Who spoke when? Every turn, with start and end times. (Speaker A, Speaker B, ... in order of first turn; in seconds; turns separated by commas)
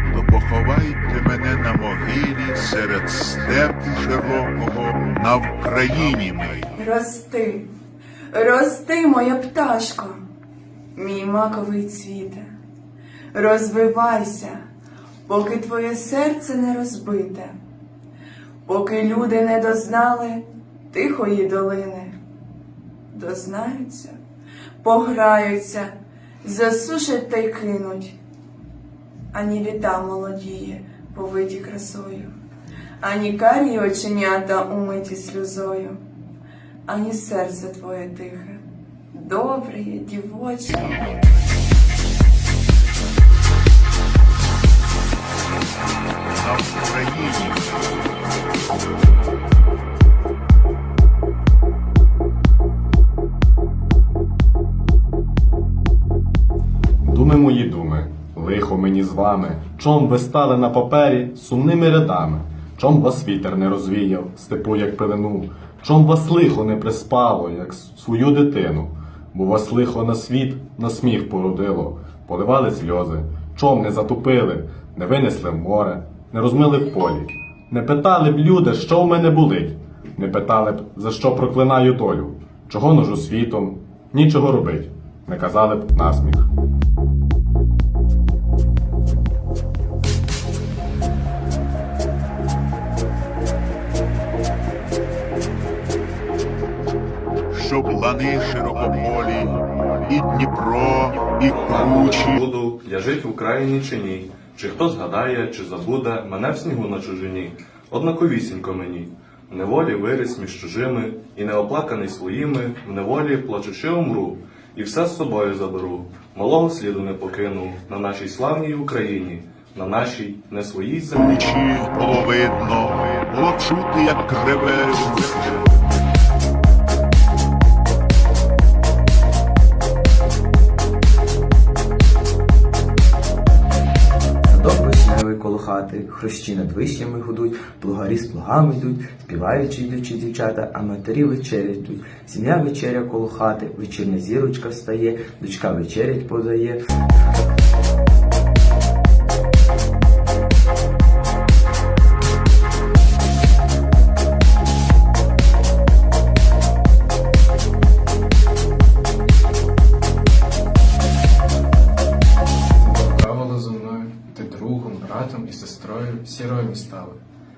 Speaker A: 0.1-6.7, Speaker B: 6.8-7.7, Speaker B: 8.3-10.2, Speaker B: 11.0-12.5, Speaker B: 13.3-14.6, Speaker B: 15.3-17.6, Speaker B: 18.7-22.2, Speaker B: 23.1-24.2, Speaker B: 24.8-28.2, Speaker B: 29.3-32.3, Speaker B: 33.0-36.0, Speaker B: 36.9-38.6, Speaker B: 39.1-41.0, Speaker A: 46.4-47.7, Speaker C: 57.0-86.5, Speaker A: 97.5-99.5, Speaker A: 100.1-102.4, Speaker D: 101.4-121.4, Speaker A: 121.2-125.7, Speaker E: 134.4-146.8, Speaker F: 162.8-167.2